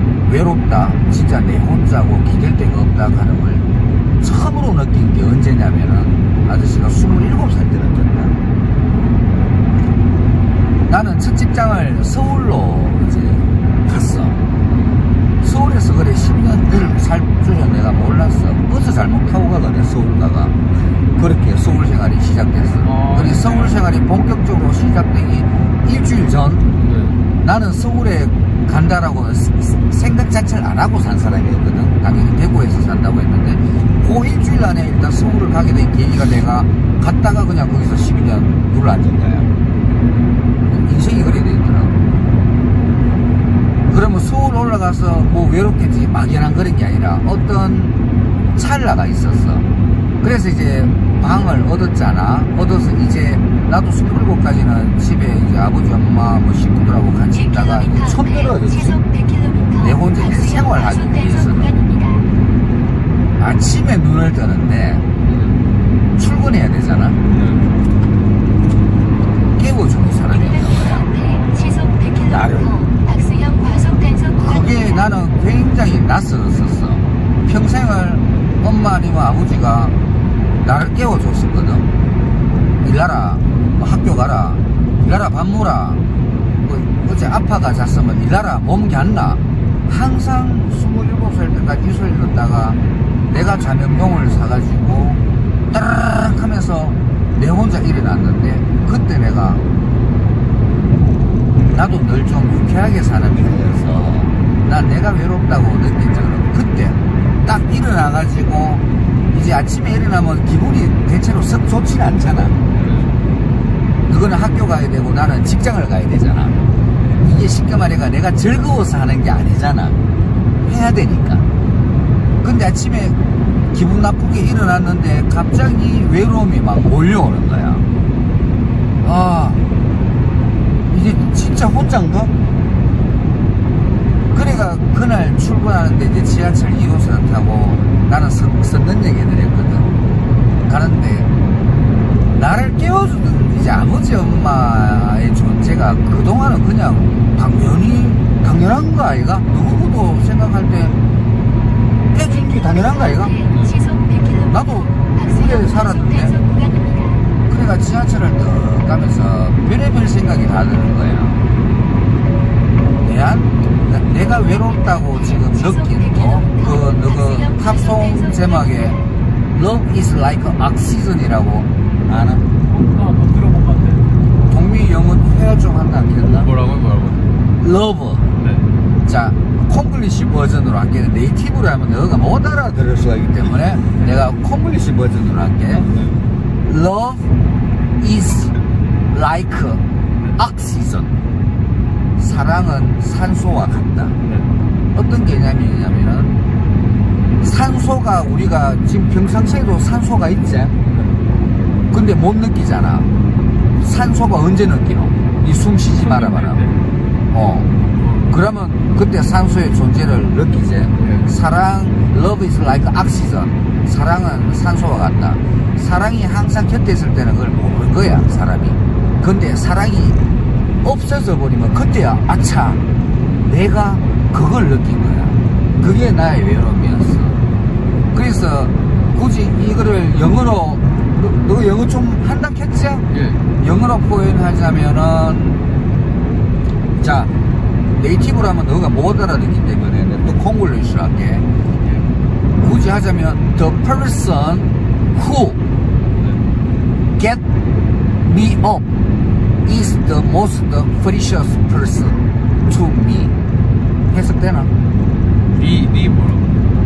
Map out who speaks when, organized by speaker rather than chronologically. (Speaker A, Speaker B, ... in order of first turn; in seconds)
Speaker A: 0.2-3.6, 4.2-8.4, 10.9-14.4, 15.4-20.5, 21.1-26.6, 27.4-39.5, 40.7-42.0, 43.9-47.9, 48.5-49.7, 50.2-59.0, 59.8-61.8, 63.4-65.0, 66.2-67.2, 69.6-71.1, 72.2-72.8, 74.4-79.9, 80.6-81.9, 82.8-86.0, 86.6-92.8, 93.3-95.2, 95.7-99.6, 101.7-112.6, 114.1-116.6, 117.2-120.0, 120.6-121.5, 122.4-123.2, 123.7-127.8, 129.0-129.6, 130.9-132.3, 134.3-139.9, 140.7-141.3, 142.3-150.9, 152.1-153.4, 154.5-156.4, 157.5-161.4, 163.0-169.0, 169.5-172.4, 174.5-176.5, 177.6-178.3, 179.0-185.9, 186.7-187.2, 188.0-188.6, 189.1-189.8, 190.3-191.2, 192.2-194.2, 194.9-196.3, 197.4-200.8, 201.9-203.1, 203.8-206.6, 207.3-207.7, 208.3-220.2, 220.8-222.8, 223.4-227.4, 228.1-233.1, 233.6-235.6, 237.0-237.3, 237.9-241.4, 242.6-245.6, 247.2-247.4, 248.2-248.9, 249.6-253.3, 254.1-254.7
Speaker B: 22.8-23.7, 26.8-27.2, 65.2-65.6, 67.3-67.8, 112.7-113.2, 153.4-153.8, 176.3-177.3, 178.4-178.7, 185.8-186.2, 194.2-194.5, 200.9-201.2, 208.0-208.3, 211.0-211.3, 233.1-233.4, 241.8-242.1, 246.1-246.4, 255.5-256.6
Speaker C: 57.4-62.2, 70.4-75.0, 152.3-157.2, 165.2-169.1
Speaker D: 172.7-174.1, 206.0-206.8